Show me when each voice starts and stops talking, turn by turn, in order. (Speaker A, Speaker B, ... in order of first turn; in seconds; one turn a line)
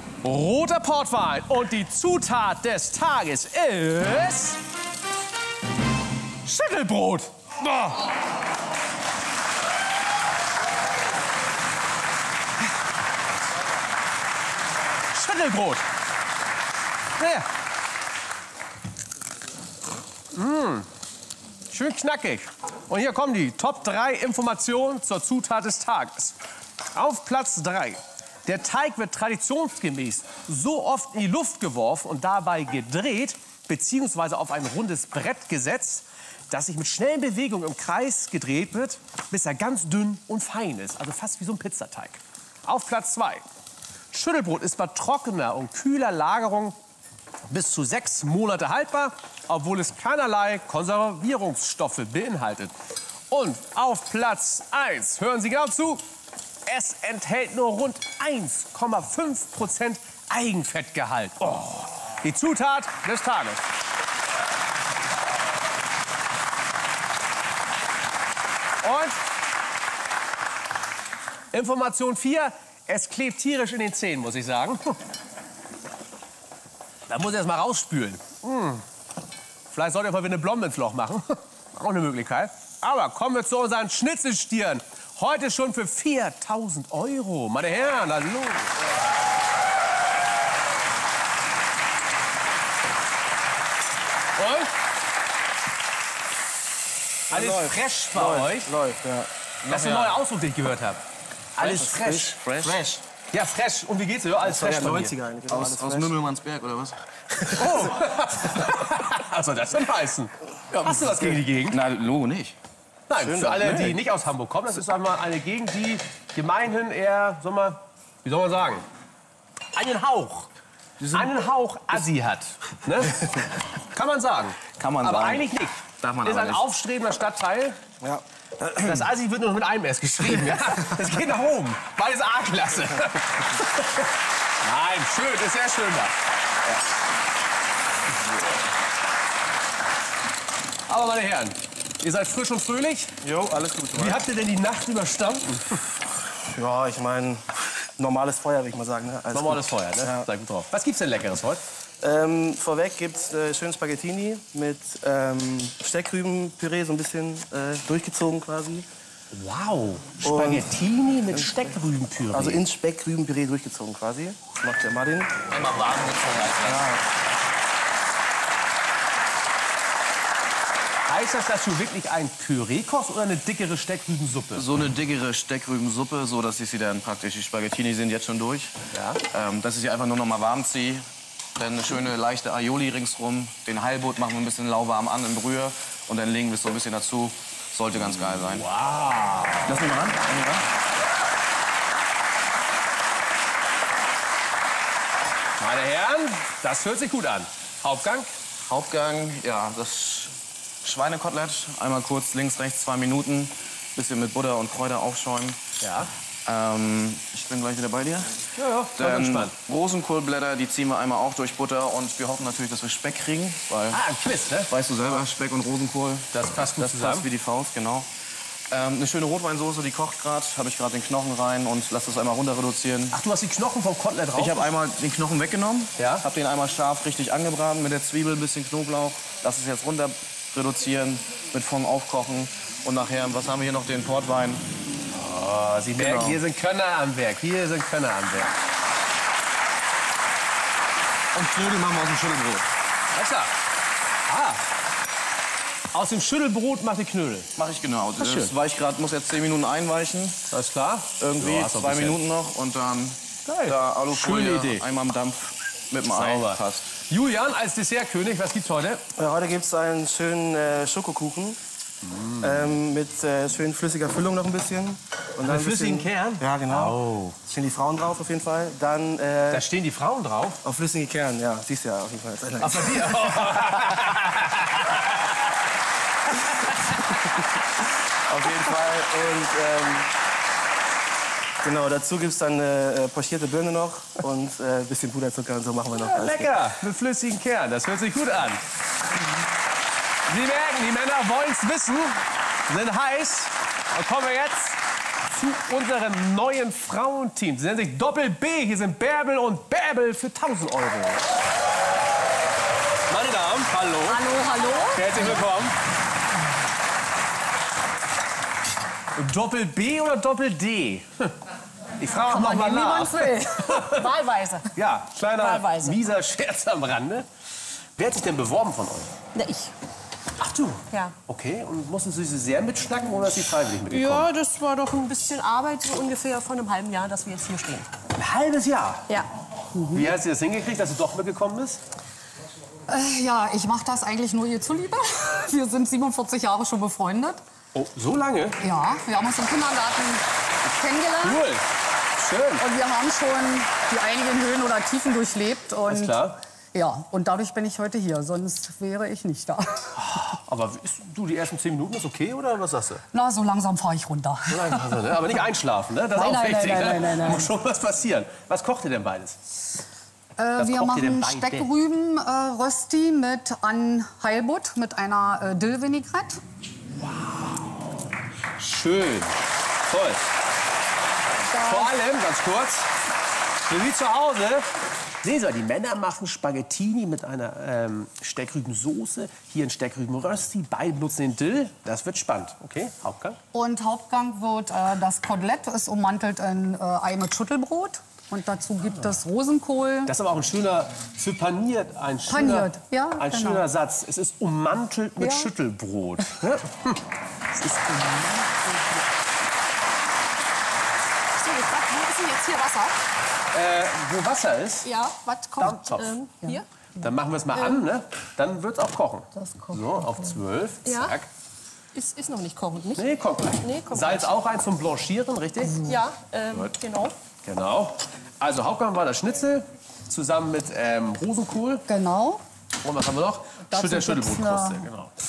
Speaker A: 0.2-4.6
Speaker A: 6.5-8.1
Speaker A: 15.1-15.9
Speaker A: 17.2-17.5
Speaker A: 20.3-20.9
Speaker A: 21.7-26.4
Speaker A: 26.9-43.4
Speaker A: 44.1-46.8
Speaker A: 47.5-52.8
Speaker A: 53.3-56.0
Speaker A: 56.7-63.6
Speaker A: 68.8-69.2
Speaker A: 71.5-75.0
Speaker A: 77.1-78.8
Speaker A: 79.7-88.8
Speaker A: 94.4-94.7
Speaker A: 97.3-98.7
Speaker B: 97.3-99.3
Speaker C: 99.7-100.2
Speaker A: 99.7-101.0
Speaker A: 101.6-105.2
Speaker B: 101.6-102.8
Speaker C: 101.7-102.2
Speaker B: 104.4-106.1
Speaker C: 105.5-107.7
Speaker A: 107.5-111.8
Speaker C: 110.9-112.6
Speaker A: 113.1-118.9
Speaker B: 113.2-113.9
Speaker A: 119.7-120.5
Speaker A: 121.1-127.8
Speaker C: 124.8-126.7
Speaker B: 128.0-129.0
Speaker A: 128.8-134.1
Speaker A: 134.6-136.1
Speaker A: 140.9-143.2
Speaker B: 143.2-144.2
Speaker A: 143.9-145.8
Speaker B: 146.2-150.3
Speaker A: 149.3-151.6
Speaker B: 152.0-158.9
Speaker A: 159.3-162.6
Speaker B: 160.2-161.6
Speaker B: 162.3-165.4
Speaker C: 165.5-167.0
Speaker B: 166.7-167.0
Speaker A: 171.1-174.7
Speaker C: 174.6-188.7
Speaker A: 178.9-179.2
Speaker A: 188.4-189.8
Speaker C: 189.7-190.7
Speaker A: 195.6-198.3
Speaker C: 198.7-205.6
Speaker A: 205.8-206.1
Speaker C: 206.5-214.1
Speaker A: 208.6-209.6
Speaker A: 213.9-214.7
Speaker C: 214.6-218.1
Speaker A: 216.3-217.3
Speaker C: 218.7-223.2
Speaker A: 223.1-224.7
Speaker C: 224.3-234.6
Speaker A: 226.0-226.2
Speaker A: 235.1-238.5
Speaker C: 236.0-236.4
Speaker C: 241.3-242.7
Speaker A: 243.1-243.5
Speaker A: 244.3-244.7
Speaker A: 245.9-247.5
Speaker C: 247.6-250.5
Speaker A: 248.2-248.5
Speaker A: 250.5-252.2
Speaker C: 251.2-256.9
Speaker A: 253.5-254.8
Speaker A: 256.1-259.1
Speaker B: 259.2-261.6
Speaker A: 262.1-262.7
Speaker B: 262.4-269.6
Speaker A: 265.4-267.4
Speaker A: 269.5-270.6
Speaker B: 270.6-273.9
Speaker A: 272.6-274.8
Speaker B: 278.3-280.1
Speaker B: 281.6-286.6
Speaker A: 285.9-288.6
Speaker A: 290.3-301.2
Speaker A: 303.1-304.2
Speaker D: 304.1-305.4
Speaker E: 304.1-305.4
Speaker A: 304.9-305.8
Speaker A: 309.1-311.4
Speaker A: 312.0-314.1
Speaker E: 312.2-314.6
Speaker A: 314.7-317.3
Speaker D: 315.3-316.1
Speaker A: 318.0-319.1
Speaker D: 319.4-319.7
Speaker A: 320.4-324.3
Speaker D: 320.9-321.2
Speaker D: 323.9-327.9
Speaker A: 328.1-329.1
Speaker E: 329.8-330.1
Speaker A: 329.9-331.8
Speaker E: 332.9-337.4
Speaker A: 337.7-338.6
Speaker E: 338.6-341.4
Speaker A: 341.2-341.6
Speaker A: 342.2-342.6
Speaker E: 342.6-349.9
Speaker A: 345.9-346.4
Speaker A: 349.9-353.0
Speaker E: 353.1-355.2
Speaker A: 354.5-359.4
Speaker E: 356.1-357.5
Speaker E: 360.4-366.4
Speaker A: 360.6-361.7
Speaker A: 367.0-367.8
Speaker A: 368.6-370.2
Speaker E: 371.5-371.9
Speaker A: 371.6-372.9
Speaker A: 373.6-374.7
Speaker A: 375.2-383.4
Speaker E: 383.5-390.1
Speaker A: 390.1-397.0
Speaker E: 392.3-393.7
Speaker E: 395.2-395.5
Speaker A: 397.6-398.2
Speaker D: 401.4-403.0
Speaker A: 403.5-404.9
Speaker D: 404.8-406.7
Speaker A: 405.6-406.2
Speaker A: 407.0-411.3
Speaker D: 407.6-407.8
Speaker E: 409.4-410.4
Speaker D: 410.9-411.2
Speaker D: 411.9-414.4
Speaker A: 413.0-415.9
Speaker D: 415.8-417.2
Speaker A: 417.4-421.9
Speaker E: 421.9-422.4
Speaker A: 422.8-425.1
Speaker E: 423.7-424.9